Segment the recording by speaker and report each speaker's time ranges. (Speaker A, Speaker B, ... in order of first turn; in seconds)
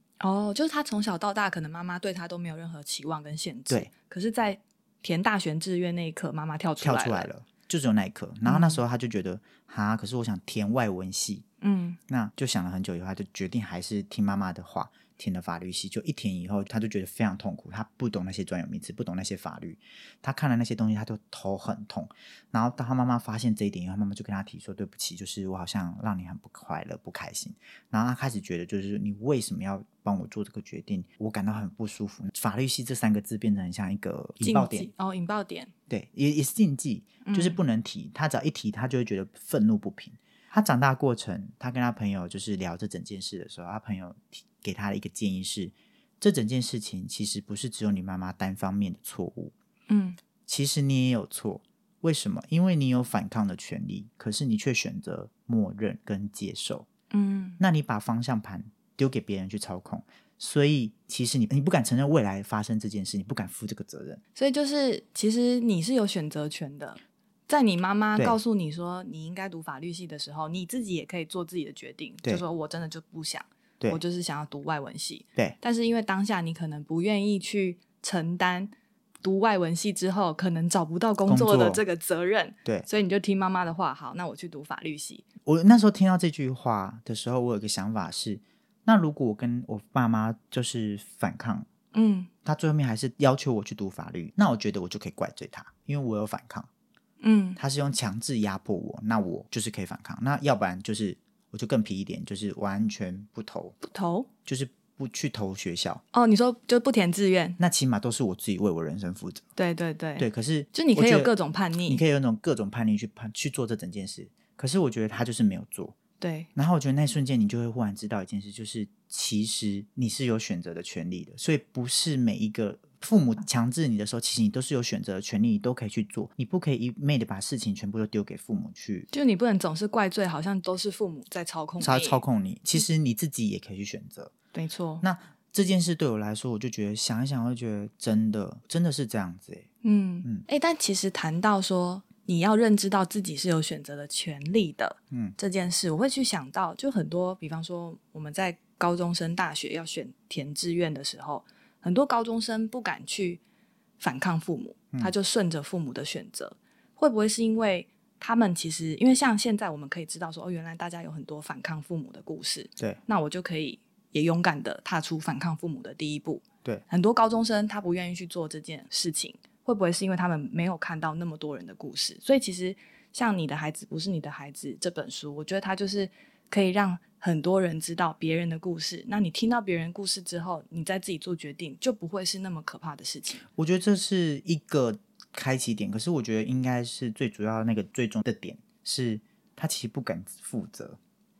Speaker A: 0.2-7.3, 8.4-8.8, 11.6-12.0, 34.4-35.7, 37.2-37.6, 49.9-50.2, 57.1-57.6, 64.4-78.7, 79.2-85.2, 91.9-92.3, 97.2-97.6, 103.8-104.3, 106.1-107.6, 109.6-112.0, 116.2-116.5, 129.1-132.2, 134.5-135.0, 139.8-153.4, 154.0-183.4
Speaker B: 6.8-11.4, 12.1-34.9, 35.9-49.5, 50.5-56.9, 57.6-64.2, 81.3-81.8, 85.5-91.7, 92.5-96.7, 97.6-103.8, 104.5-106.0, 107.6-109.5, 110.2-111.3, 111.9-116.0, 116.6-129.1, 131.8-134.3, 135.0-139.7, 183.5-191.0